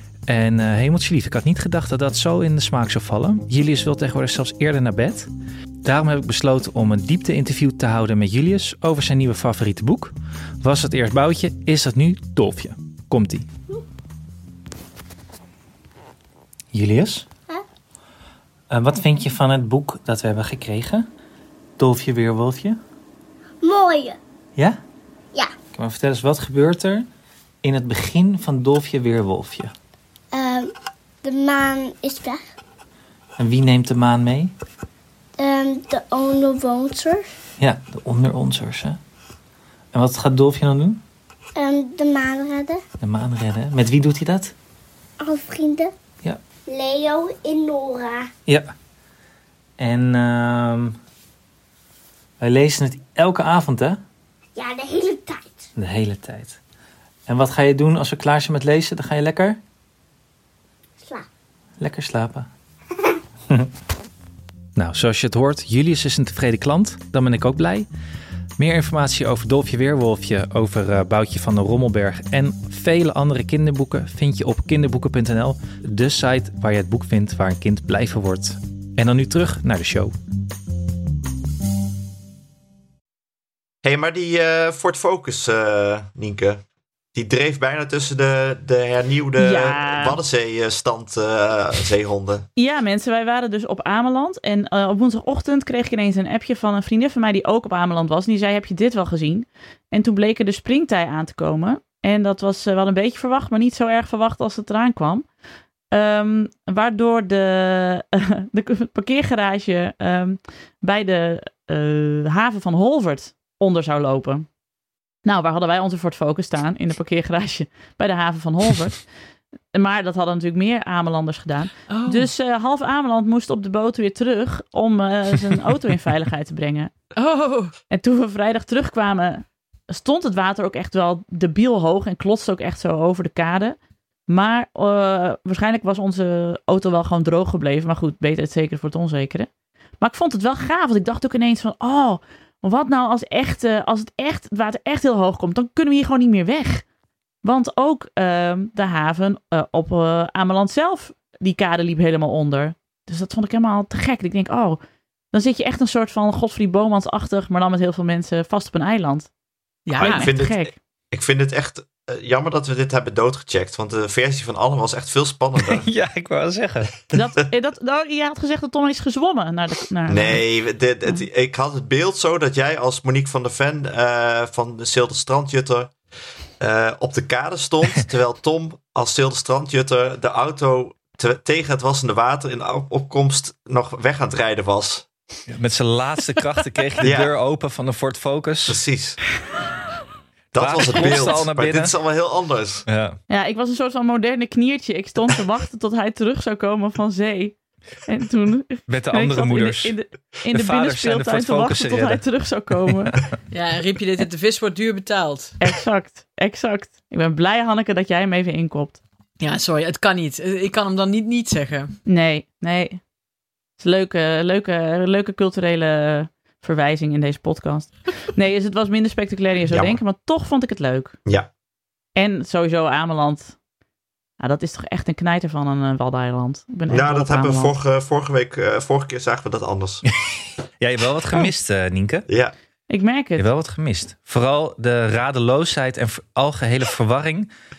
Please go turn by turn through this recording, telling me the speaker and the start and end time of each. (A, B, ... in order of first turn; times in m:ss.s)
0:00.3-0:05.3 A
0:05.8-0:13.5 A
0:16.7-0:17.3 A
0:18.7-0:21.1 A
0:21.8-0:22.8 A
0:23.6-0:24.2 B
0:25.7-0:27.1 A
0:27.6-0:29.7 A
0:30.3-0:30.7 B
0:31.2-0:32.4 B
0:33.4-0:34.5 A
0:35.4-0:37.2 B
0:37.6-0:39.0 A
0:39.9-0:41.0 A
0:41.6-0:42.8 B
0:43.0-0:44.5 A
0:45.2-0:45.9 B
0:46.7-0:48.3 B
0:48.5-0:48.7 A
0:49.8-0:51.0 A
0:52.4-0:54.0 A
0:54.6-0:55.7 B
0:55.8-0:56.6 A
0:57.3-0:59.6 A
1:01.8-1:02.5 A
1:04.8-1:07.9 A
1:08.6-1:20.1 A
1:23.8-1:26.6 C
1:27.1-1:32.5 C
1:29.4-1:30.2 D
1:32.6-1:45.3 D
1:45.9-1:54.5 D
1:55.2-1:59.0 D
1:59.7-2:06.9 D
2:01.9-2:02.3 E
2:07.1-2:07.7 E
2:07.9-2:13.8 D
2:14.3-2:26.8 D
2:27.4-2:34.8 D
2:35.3-2:39.3 D
2:39.9-2:40.3 E
2:40.0-2:45.8 C
2:40.0-2:40.7 D
2:45.6-2:46.9 A
2:47.1-2:50.4 D
2:50.1-2:55.9 C
2:56.6-3:05.1 C
3:05.5-3:08.8 A
3:07.0-3:07.3 C
3:08.6-3:09.2 C
3:10.5-3:12.8 C
3:10.6-3:12.0 A
3:12.9-3:13.2 A
3:13.3-3:23.2 D
3:18.9-3:19.9 A
3:20.5-3:22.2 A
3:22.9-3:23.2 A
3:23.5-3:25.6 E
3:25.6-3:29.0 D
3:29.4-3:32.0 E
3:32.0-3:33.0 D
3:33.8-3:41.2 D
3:39.7-3:40.0 C
3:42.1-3:43.6 D
3:44.4-3:47.7 D
3:46.9-3:50.0 C
3:50.2-3:52.3 A
3:52.3-3:52.5 C
3:52.9-3:53.5 D
3:53.4-3:57.5 A